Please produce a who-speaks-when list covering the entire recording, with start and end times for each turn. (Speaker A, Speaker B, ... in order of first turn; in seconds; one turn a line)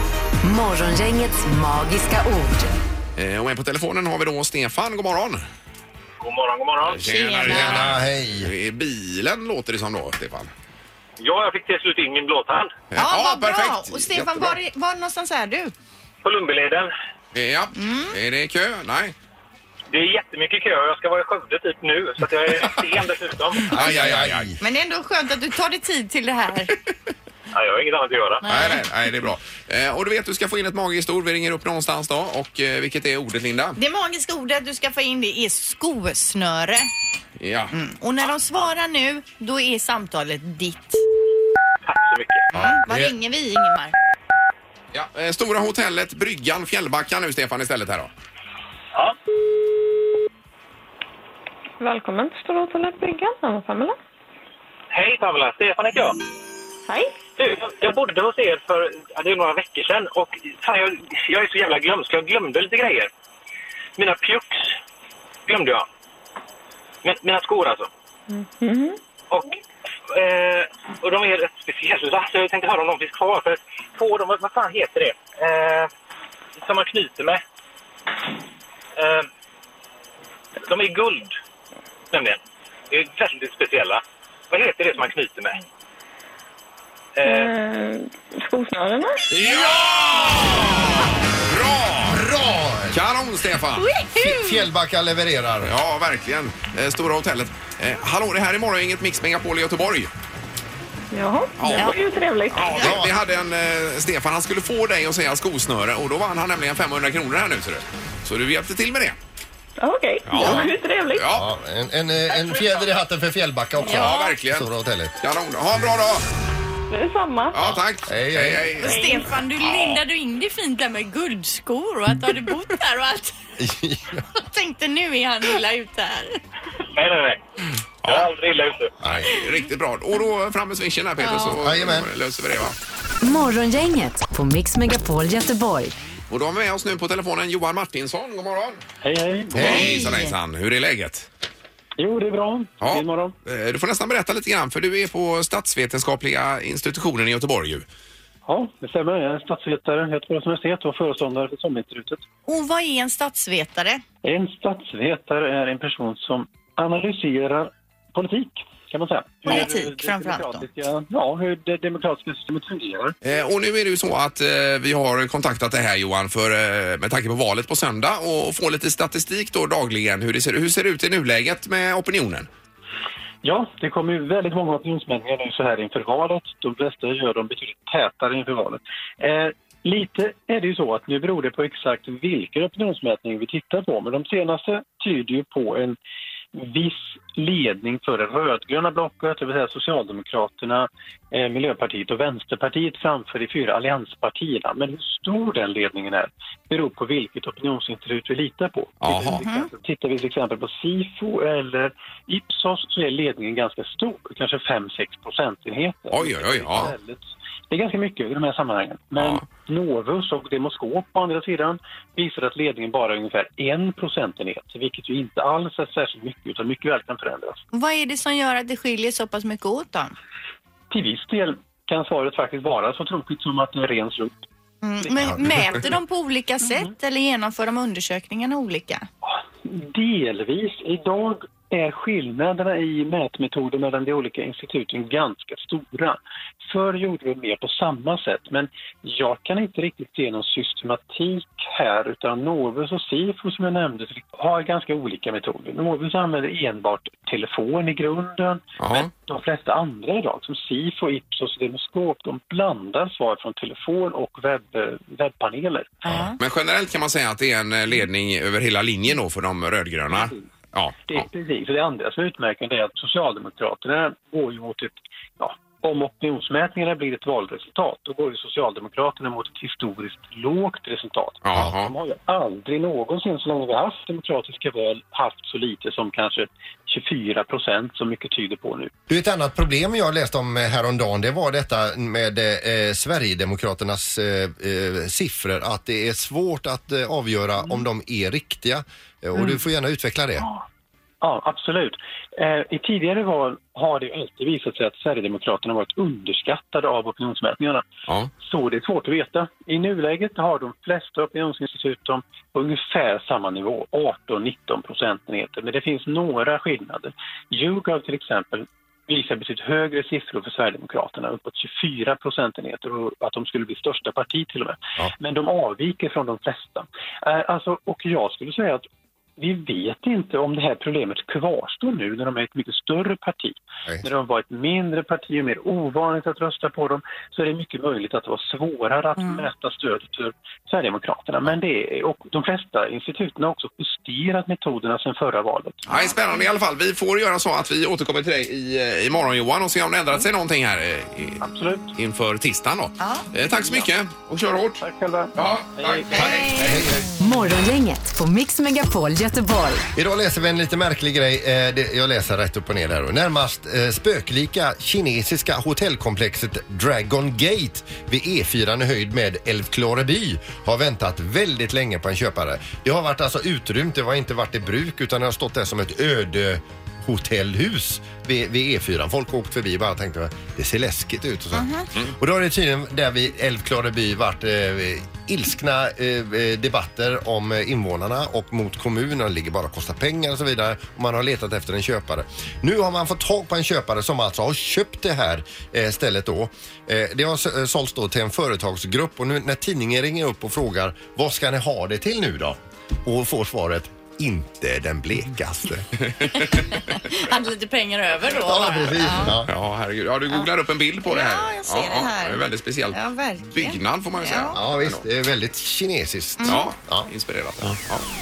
Speaker A: 0.4-2.7
Speaker B: 3.2-5.5
Speaker C: 6.2-7.1
Speaker B: 6.8-10.5
Speaker D: 7.0-7.9
Speaker E: 7.5-8.5
Speaker C: 11.2-12.7
Speaker B: 12.9-14.5
Speaker D: 13.0-15.7
Speaker C: 16.2-16.9
Speaker B: 17.3-19.1
Speaker D: 17.8-18.2
Speaker C: 19.9-23.7
Speaker B: 23.7-24.6
Speaker E: 23.7-24.6
Speaker D: 24.6-26.7
Speaker C: 27.5-28.5
Speaker D: 28.4-28.8
Speaker B: 28.5-33.8
Speaker D: 33.8-36.9
Speaker B: 37.4-37.7
Speaker D: 37.7-41.0
Speaker C: 41.9-42.5
Speaker E: 42.5-43.1
Speaker D: 42.5-44.0
Speaker B: 44.9-48.1
Speaker F: 51.8-54.0
Speaker C: 54.9-56.2
Speaker F: 56.9-57.2
Speaker C: 57.4-63.1
Speaker C: 64.0-64.7
Speaker C: 65.5-65.9
Speaker C: 67.0-67.9
Speaker F: 68.3-69.0
Speaker C: 69.3-69.6
Speaker C: 70.1-75.9
Speaker C: 76.6-77.4
Speaker C: 79.0-79.3
Speaker C: 80.6-81.3
Speaker C: 82.1-82.4
Speaker C: 82.9-85.6
Speaker C: 87.2-87.5
Speaker F: 87.2-89.2
Speaker B: 89.3-92.2
Speaker E: 92.1-93.0
Speaker B: 92.9-93.9
Speaker D: 93.8-94.7
Speaker E: 94.1-95.8
Speaker B: 95.6-100.1
Speaker F: 101.1-102.8
Speaker B: 101.6-101.9
Speaker B: 102.5-109.2
Speaker E: 102.8-103.1
Speaker F: 109.8-111.3
Speaker B: 110.3-111.5
Speaker D: 110.4-110.7
Speaker E: 111.3-115.2
Speaker D: 113.8-114.3
Speaker B: 113.8-114.7
Speaker B: 115.2-116.2
Speaker F: 116.9-117.6
Speaker B: 117.5-119.0
Speaker E: 118.1-118.8
Speaker D: 118.8-123.3
Speaker F: 118.8-119.3
Speaker B: 119.6-120.0
Speaker E: 123.6-124.2
Speaker D: 124.4-126.4
Speaker C: 126.9-127.4
Speaker B: 128.0-128.3
Speaker C: 128.0-128.9
Speaker E: 129.0-129.4
Speaker B: 129.0-132.8
Speaker D: 131.2-131.5
Speaker E: 131.6-132.1
Speaker A: 133.2-135.9
Speaker B: 136.3-138.8
Speaker G: 139.0-140.0
Speaker B: 139.6-141.3
Speaker E: 139.6-139.9
Speaker D: 139.6-140.3
Speaker G: 142.0-143.3
Speaker B: 142.8-147.9
Speaker G: 148.5-152.2
Speaker D: 152.5-154.0
Speaker G: 154.2-163.2
Speaker D: 159.4-160.7
Speaker B: 163.2-172.5
Speaker G: 173.4-186.0
Speaker G: 186.5-217.6
Speaker B: 199.0-199.4
Speaker D: 199.4-199.7
Speaker B: 206.1-206.9
Speaker B: 209.2-209.4
Speaker D: 217.7-220.1
Speaker G: 220.9-224.4
Speaker D: 224.8-229.1
Speaker G: 229.2-256.3
Speaker B: 248.8-249.1
Speaker D: 256.1-256.4
Speaker B: 256.4-261.2
Speaker G: 260.1-260.5
Speaker G: 261.1-278.9
Speaker B: 271.4-271.9
Speaker E: 279.1-290.5
Speaker G: 291.2-297.8
Speaker G: 298.4-318.9
Speaker G: 319.4-335.9
Speaker D: 335.9-336.4
Speaker B: 335.9-341.4
Speaker G: 341.4-341.9
Speaker B: 342.0-344.8
Speaker D: 343.0-343.9
Speaker G: 344.8-346.5
Speaker B: 345.4-347.0
Speaker D: 346.1-346.7
Speaker E: 346.6-347.1
Speaker A: 347.2-349.9
Speaker E: 350.0-395.9
Speaker D: 371.5-371.9
Speaker B: 396.2-396.8
Speaker D: 396.3-399.4
Speaker E: 398.3-399.5
Speaker B: 399.5-405.1
Speaker D: 401.1-404.6
Speaker E: 404.6-407.1
Speaker D: 406.4-406.7
Speaker B: 406.5-408.1